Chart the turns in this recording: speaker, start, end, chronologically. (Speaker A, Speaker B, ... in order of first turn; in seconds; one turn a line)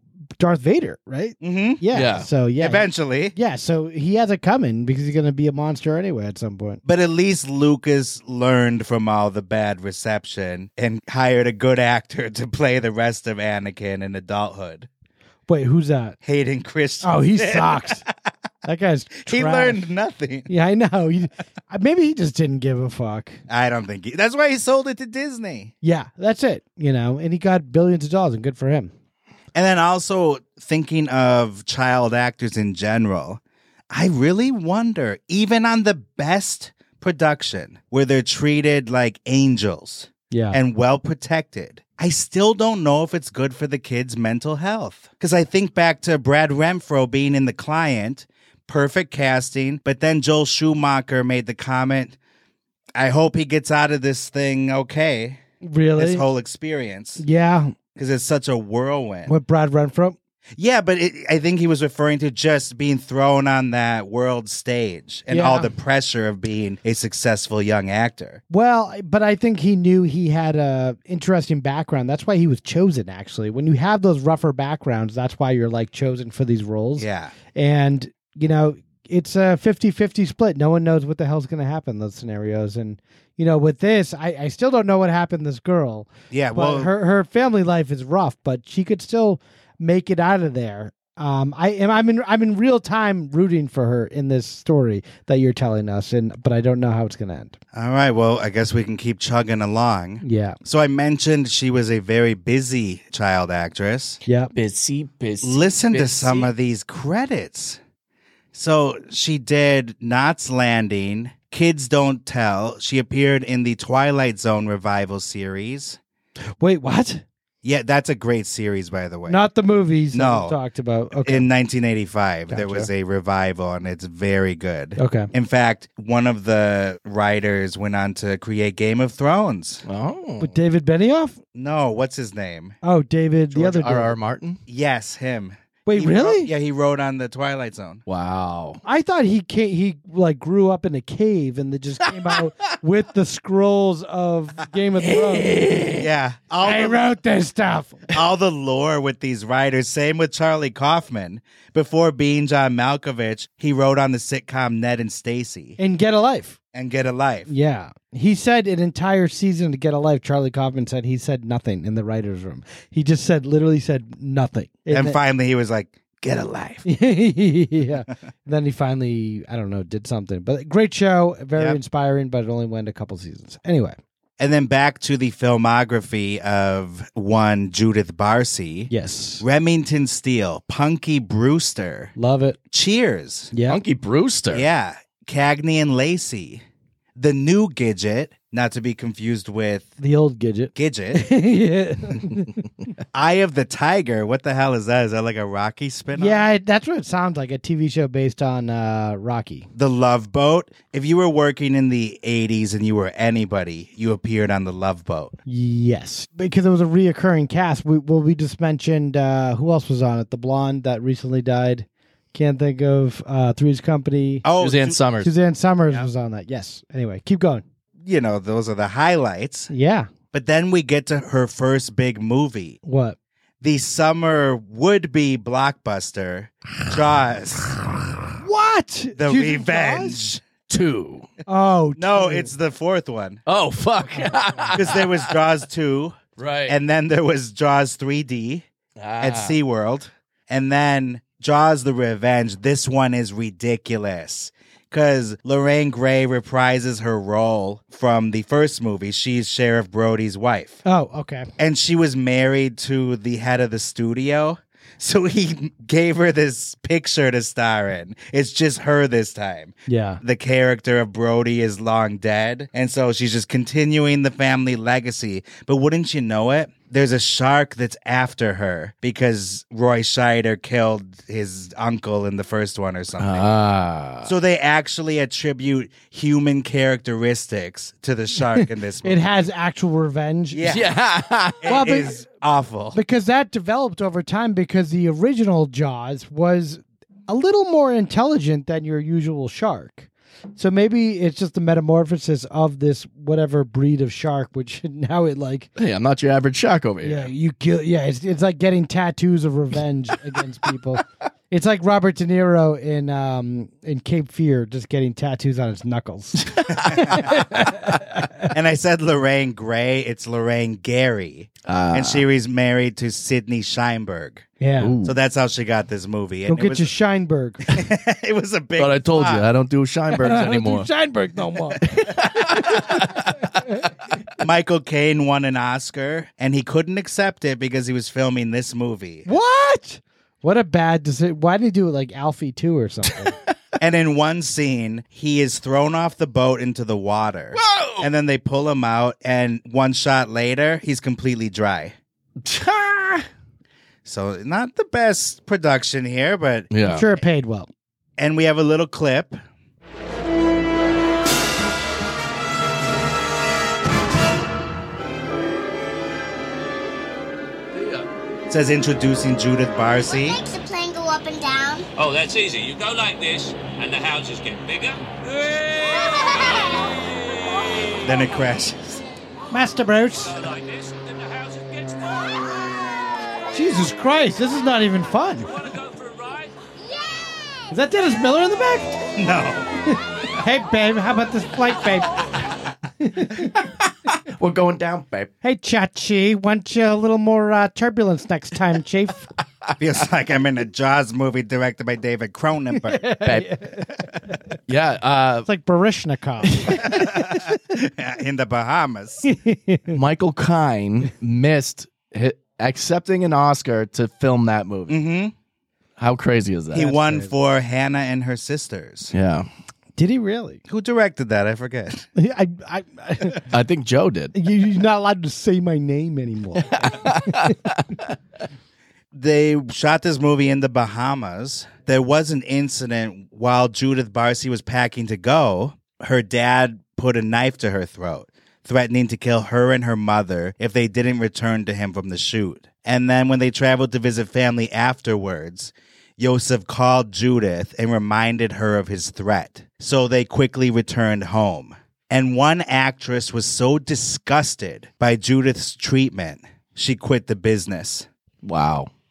Speaker A: 0.4-6.8
Speaker B: 1.4-1.8
Speaker C: 1.9-2.3
Speaker B: 2.6-3.3
Speaker B: 6.8-14.9
Speaker A: 15.5-16.2
Speaker B: 16.2-18.1
Speaker A: 17.0-18.0
Speaker A: 18.6-19.8
Speaker B: 19.2-20.5
Speaker A: 20.5-23.4
Speaker B: 23.5-25.7
Speaker A: 25.8-28.9
Speaker B: 29.5-33.4
Speaker B: 33.9-52.2
Speaker A: 40.3-40.6
Speaker B: 53.0-55.4
Speaker A: 55.6-56.2
Speaker B: 56.0-57.2
Speaker A: 57.2-57.7
Speaker B: 58.0-59.3
Speaker A: 59.2-60.1
Speaker B: 60.6-68.4
Speaker A: 65.3-65.7
Speaker A: 68.5-97.6
Speaker B: 77.0-77.3
Speaker B: 86.3-86.9
Speaker B: 97.7-104.2
Speaker A: 100.2-100.6
Speaker A: 104.2-104.5
Speaker C: 104.5-106.5
Speaker B: 105.4-107.8
Speaker B: 108.5-116.0
Speaker A: 116.6-117.2
Speaker B: 117.6-119.4
Speaker A: 119.3-121.5
Speaker B: 120.1-120.5
Speaker B: 121.2-129.8
Speaker A: 122.5-122.9
Speaker A: 125.0-125.3
Speaker C: 129.8-130.6
Speaker A: 130.4-131.4
Speaker B: 131.5-132.8
Speaker A: 132.8-134.1
Speaker C: 133.5-134.6
Speaker B: 134.7-138.0
Speaker A: 135.8-136.5
Speaker C: 138.1-138.8
Speaker A: 138.8-146.0
Speaker C: 145.1-146.0
Speaker B: 146.0-147.0
Speaker A: 146.6-148.0
Speaker B: 148.1-155.8
Speaker A: 155.8-156.6
Speaker B: 156.7-157.5
Speaker A: 157.5-165.2
Speaker B: 164.9-166.8
Speaker A: 166.8-174.0
Speaker B: 171.5-171.8
Speaker B: 174.4-182.1
Speaker A: 178.9-179.4
Speaker A: 182.2-182.6
Speaker B: 182.7-183.5
Speaker A: 183.5-183.8
Speaker C: 183.7-184.7
Speaker B: 184.5-186.6
Speaker B: 187.2-189.9
Speaker A: 190.0-192.5
Speaker B: 190.7-191.3
Speaker B: 193.1-196.4
Speaker A: 196.2-199.7
Speaker B: 199.7-205.4
Speaker A: 205.5-214.4
Speaker B: 214.4-215.0
Speaker C: 214.6-215.3
Speaker A: 215.2-217.6
Speaker B: 218.0-219.7
Speaker A: 219.7-220.1
Speaker B: 220.3-222.8
Speaker A: 222.8-223.2
Speaker B: 223.6-227.8
Speaker A: 228.4-230.2
Speaker B: 229.2-230.4
Speaker C: 230.7-231.3
Speaker A: 231.5-232.5
Speaker B: 232.0-233.4
Speaker C: 233.5-235.3
Speaker B: 234.7-236.2
Speaker C: 236.4-236.8
Speaker B: 236.7-238.7
Speaker C: 239.0-239.6
Speaker B: 239.2-250.8
Speaker A: 250.8-251.5
Speaker B: 251.6-273.5
Speaker A: 259.9-260.2
Speaker C: 273.2-274.3
Speaker B: 274.2-279.3
Speaker A: 279.0-280.6
Speaker B: 280.5-280.9
Speaker C: 280.6-281.7
Speaker B: 281.6-283.0
Speaker A: 281.6-282.1
Speaker A: 282.9-295.7
Speaker C: 295.8-297.3
Speaker A: 297.0-308.5
Speaker C: 306.5-307.3
Speaker B: 306.8-307.3
Speaker B: 308.5-314.5
Speaker C: 311.7-312.2
Speaker A: 314.6-314.9
Speaker C: 314.8-315.2
Speaker B: 315.0-316.9
Speaker A: 316.5-317.6
Speaker B: 317.7-319.5
Speaker C: 318.8-320.9
Speaker A: 320.2-321.8
Speaker C: 321.9-323.3
Speaker A: 322.5-323.0
Speaker B: 324.4-329.3
Speaker A: 329.2-333.4
Speaker B: 333.8-341.9
Speaker C: 337.5-338.1
Speaker C: 342.4-343.3
Speaker B: 344.0-346.7
Speaker C: 346.7-347.1
Speaker A: 346.8-347.7
Speaker B: 348.2-349.4
Speaker C: 357.7-358.1
Speaker B: 358.5-360.4
Speaker D: 360.0-361.9
Speaker E: 362.0-368.2
Speaker D: 365.8-366.9
Speaker B: 368.0-369.0
Speaker A: 369.5-370.4
Speaker E: 370.2-372.4
Speaker A: 373.5-375.5
Speaker E: 375.5-376.5
Speaker D: 376.8-377.7
Speaker A: 377.7-379.0
Speaker B: 379.2-379.7
Speaker A: 380.3-382.1
Speaker A: 383.0-383.5
Speaker C: 383.7-385.3
Speaker A: 385.4-389.3
Speaker B: 389.8-393.1
Speaker A: 392.9-393.9
Speaker C: 393.2-393.5
Speaker C: 394.7-395.5
Speaker A: 395.5-397.4
Speaker B: 396.8-399.3
Speaker A: 399.3-399.9
Speaker C: 399.9-405.0
Speaker B: 404.9-405.3
Speaker C: 406.0-406.9
Speaker A: 406.7-407.3
Speaker B: 406.7-409.1
Speaker C: 409.1-409.5
Speaker A: 410.0-410.6
Speaker B: 410.7-412.1
Speaker A: 412.1-413.4
Speaker C: 413.5-414.3
Speaker A: 414.3-417.5
Speaker C: 416.7-418.1
Speaker B: 419.1-448.1
Speaker C: 448.4-448.9